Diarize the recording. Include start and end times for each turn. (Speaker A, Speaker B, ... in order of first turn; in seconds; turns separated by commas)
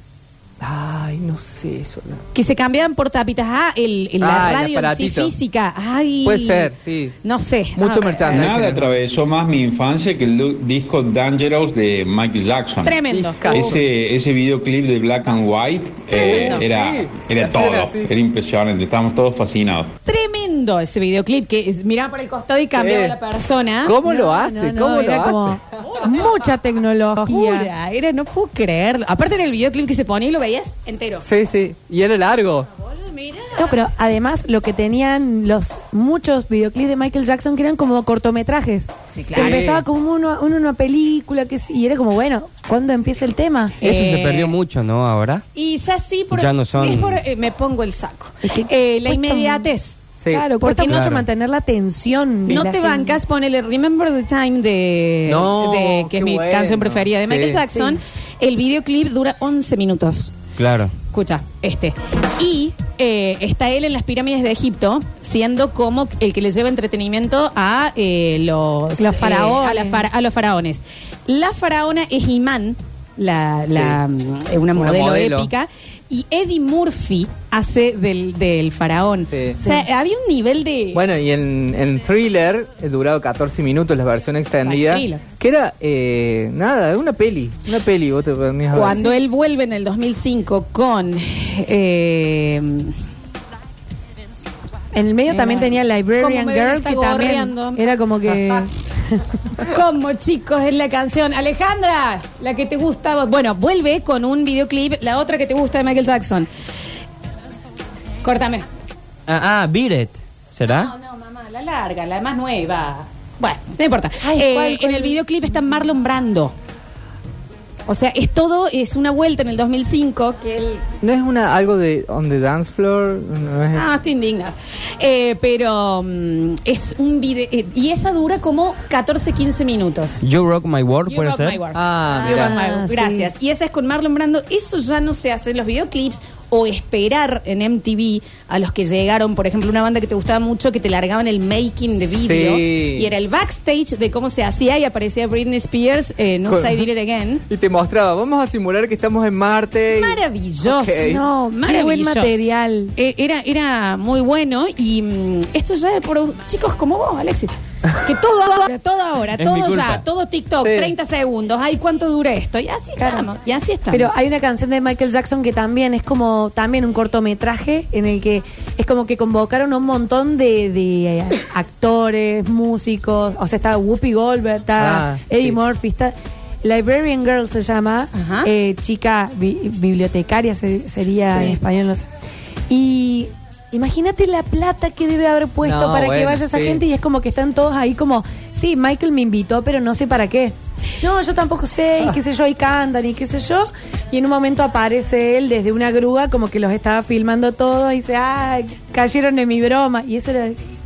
Speaker A: 0.6-2.2, Speaker B: 2.3-6.7, Speaker A: 4.2-5.3, Speaker A: 6.2-7.2, Speaker B: 7.2-8.5, Speaker A: 7.8-9.0, Speaker C: 8.3-19.9, Speaker B: 12.8-13.8, Speaker A: 13.1-13.8, Speaker B: 16.1-16.6, Speaker A: 16.1-18.1, Speaker B: 20.1-24.0, Speaker A: 22.8-23.2, Speaker A: 23.9-25.6, Speaker D: 24.0-27.7, Speaker B: 25.8-26.4, Speaker B: 27.3-31.2, Speaker A: 31.2-32.7, Speaker B: 32.8-33.8, Speaker D: 33.6-43.8, Speaker B: 39.2-39.6, Speaker A: 39.3-39.8, Speaker B: 43.8-44.5, Speaker E: 43.8-45.4, Speaker B: 45.5-50.0, Speaker E: 46.3-47.2, Speaker D: 48.4-49.7, Speaker A: 50.2-50.5, Speaker D: 50.3-53.2, Speaker B: 50.6-51.1, Speaker E: 50.9-51.2, Speaker B: 52.5-60.3, Speaker A: 55.3-57.6, Speaker E: 60.6-61.0, Speaker B: 61.1-81.0, Speaker D: 69.0-70.1, Speaker A: 73.7-74.0, Speaker A: 74.8-75.5, Speaker A: 79.3-79.6, Speaker A: 80.9-89.0, Speaker B: 84.7-85.2, Speaker B: 88.7-93.0, Speaker D: 94.9-99.2, Speaker B: 95.3-97.9, Speaker B: 99.6-106.5, Speaker B: 108.2-108.7, Speaker E: 109.3-110.9, Speaker B: 110.7-116.5, Speaker D: 114.2-115.2, Speaker B: 117.9-120.8, Speaker A: 121.0-123.9, Speaker B: 123.7-130.2, Speaker E: 130.2-131.6, Speaker B: 131.1-147.4, Speaker A: 131.7-132.6, Speaker D: 132.1-133.3, Speaker A: 142.2-143.1, Speaker A: 146.5-146.9, Speaker A: 147.5-151.2, Speaker B: 149.9-164.1, Speaker D: 151.0-152.9, Speaker E: 159.4-160.0, Speaker A: 160.6-160.9, Speaker D: 163.0-163.3, Speaker D: 163.9-182.1, Speaker A: 174.8-175.5, Speaker B: 178.1-178.5, Speaker D: 182.7-200.6, Speaker A: 185.6-186.8